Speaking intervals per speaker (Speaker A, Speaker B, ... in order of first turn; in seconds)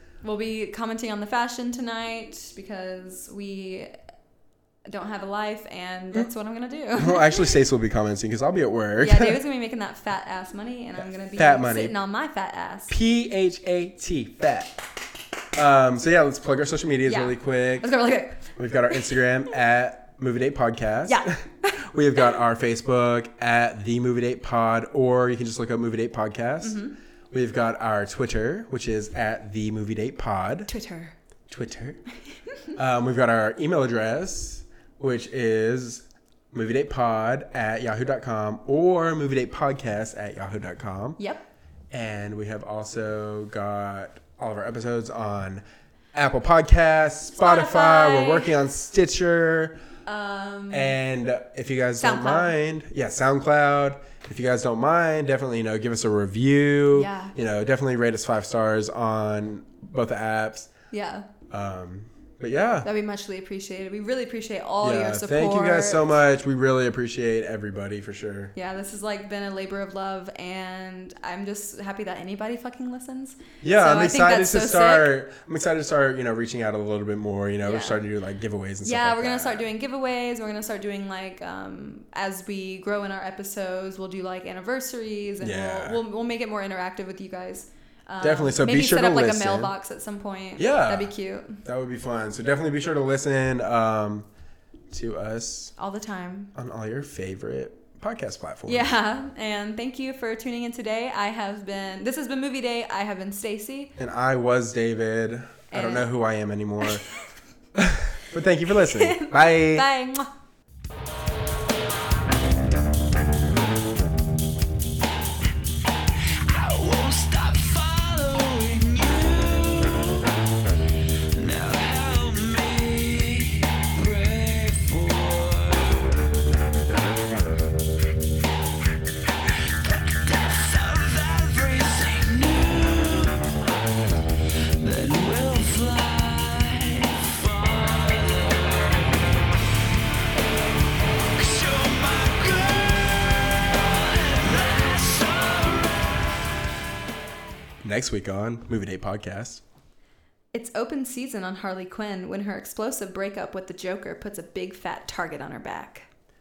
Speaker A: 0.2-3.9, 4.8-7.5, 9.0-12.9, 17.1-18.5, 21.1-21.8, 26.6-26.9, 30.7-31.1, 41.2-41.4, 47.4-48.6, 50.0-51.0, 52.0-52.5, 56.9-57.3, 60.9-61.3, 62.8-66.1, 68.5-75.1, 77.6-78.0, 78.8-91.6, 95.8-96.5, 98.7-103.9, 105.7-106.1, 108.8-110.3, 150.5-156.1
Speaker B: 7.0-9.4, 11.0-11.9, 12.9-14.8, 15.5-17.9, 18.6-30.7, 31.5-32.0, 32.8-41.2, 41.9-45.6, 46.1-49.8, 50.7-60.7, 61.5-62.9, 64.8-68.5, 73.6-79.7, 85.4-86.0, 88.2-89.7, 90.6-94.3, 94.9-95.7, 96.5-98.9, 104.0-107.0, 107.7-109.9, 147.8-149.6
Speaker C: 116.4-120.3, 121.3-126.2, 129.8-133.5, 134.8-139.2, 141.3-146.1